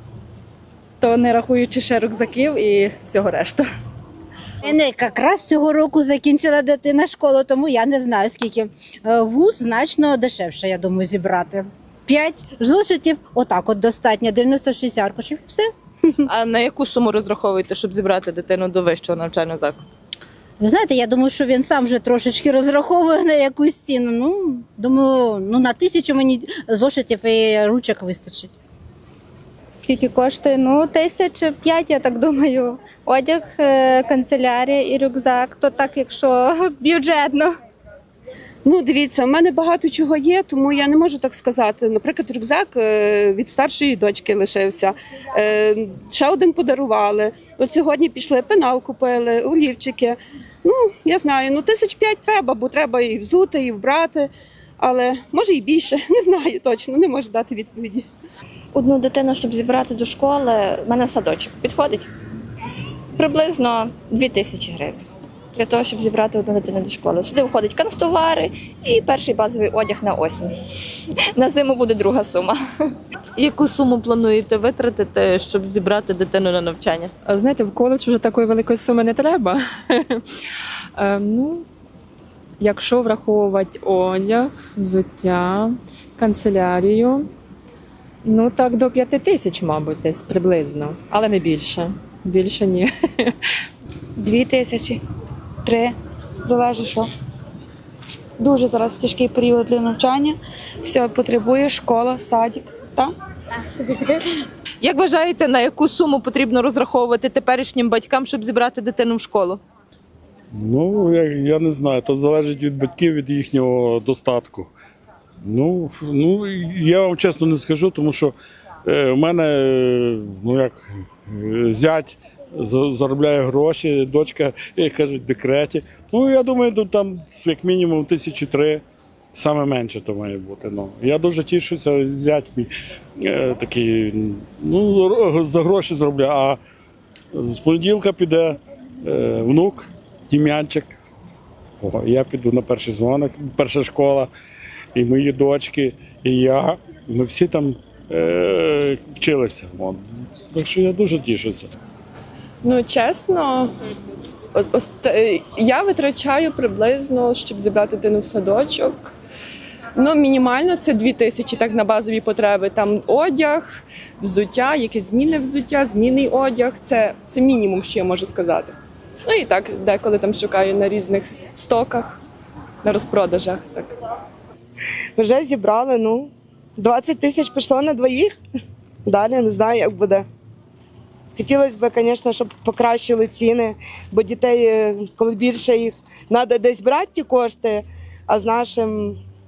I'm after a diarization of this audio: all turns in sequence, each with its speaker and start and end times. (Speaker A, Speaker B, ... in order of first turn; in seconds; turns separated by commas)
Speaker A: 1.0-3.6, Speaker B: 4.6-15.7, Speaker C: 16.3-19.8, Speaker B: 20.6-28.5, Speaker D: 29.8-37.5, Speaker E: 38.6-58.1, Speaker F: 58.7-62.1, Speaker F: 63.2-65.0, Speaker F: 65.5-70.5, Speaker F: 71.3-72.6, Speaker C: 73.4-77.1, Speaker G: 77.2-80.2, Speaker G: 81.0-81.6, Speaker G: 82.6-87.3, Speaker G: 88.2-93.3, Speaker H: 94.2-95.0, Speaker H: 95.6-97.1, Speaker H: 98.4-103.1, Speaker C: 104.8-109.6, Speaker I: 110.5-114.7, Speaker I: 115.4-118.3, Speaker I: 118.8-128.8, Speaker I: 129.3-132.7, Speaker I: 133.2-136.6, Speaker I: 137.3-141.0, Speaker I: 141.8-144.3, Speaker I: 144.9-151.7, Speaker J: 152.6-153.7, Speaker J: 154.6-159.1, Speaker J: 160.0-172.2, Speaker J: 172.8-173.9, Speaker K: 175.2-178.3, Speaker K: 179.1-180.2, Speaker K: 181.3-189.2